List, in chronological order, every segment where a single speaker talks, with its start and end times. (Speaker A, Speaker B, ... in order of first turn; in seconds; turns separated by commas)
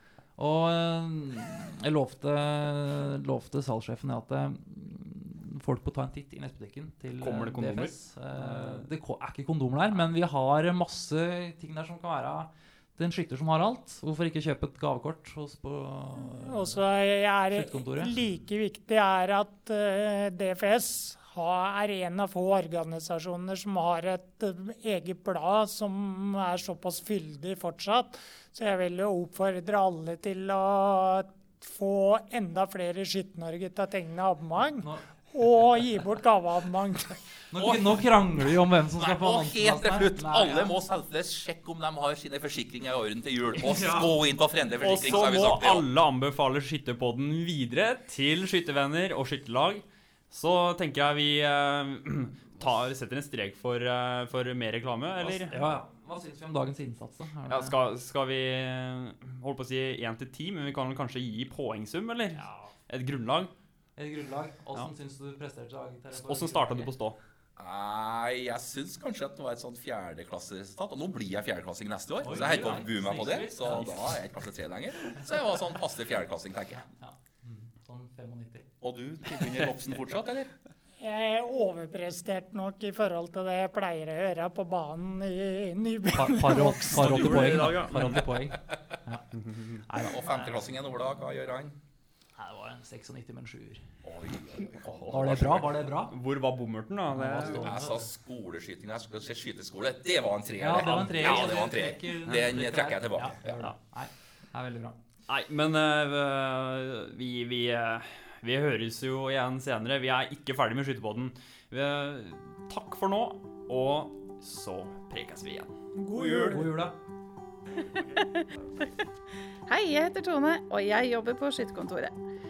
Speaker A: 0.4-16.8, Speaker B: 7.2-8.8, Speaker C: 16.2-37.2, Speaker A: 17.5-18.1, Speaker A: 34.8-35.1, Speaker A: 37.5-40.8, Speaker D: 37.6-38.1, Speaker D: 39.0-45.9, Speaker A: 43.6-44.1, Speaker B: 44.8-55.6, Speaker A: 55.5-57.7, Speaker B: 57.5-63.5, Speaker A: 62.4-62.7, Speaker A: 64.0-66.9, Speaker B: 66.2-67.2, Speaker D: 67.6-76.9, Speaker A: 72.2-74.1, Speaker A: 76.8-78.7, Speaker D: 78.8-80.5, Speaker C: 81.0-87.6, Speaker A: 86.1-90.8, Speaker B: 86.9-88.5, Speaker B: 89.3-89.8, Speaker D: 89.9-91.8, Speaker A: 92.4-93.9, Speaker D: 94.0-95.8, Speaker B: 94.9-95.5, Speaker A: 95.1-96.2, Speaker B: 96.1-97.7, Speaker A: 97.1-98.0, Speaker D: 97.4-103.7, Speaker A: 100.6-105.0, Speaker B: 101.2-101.6, Speaker B: 105.3-115.7, Speaker C: 116.0-116.7, Speaker D: 116.2-116.7, Speaker A: 116.2-117.0, Speaker E: 117.8-119.0, Speaker E: 119.7-122.2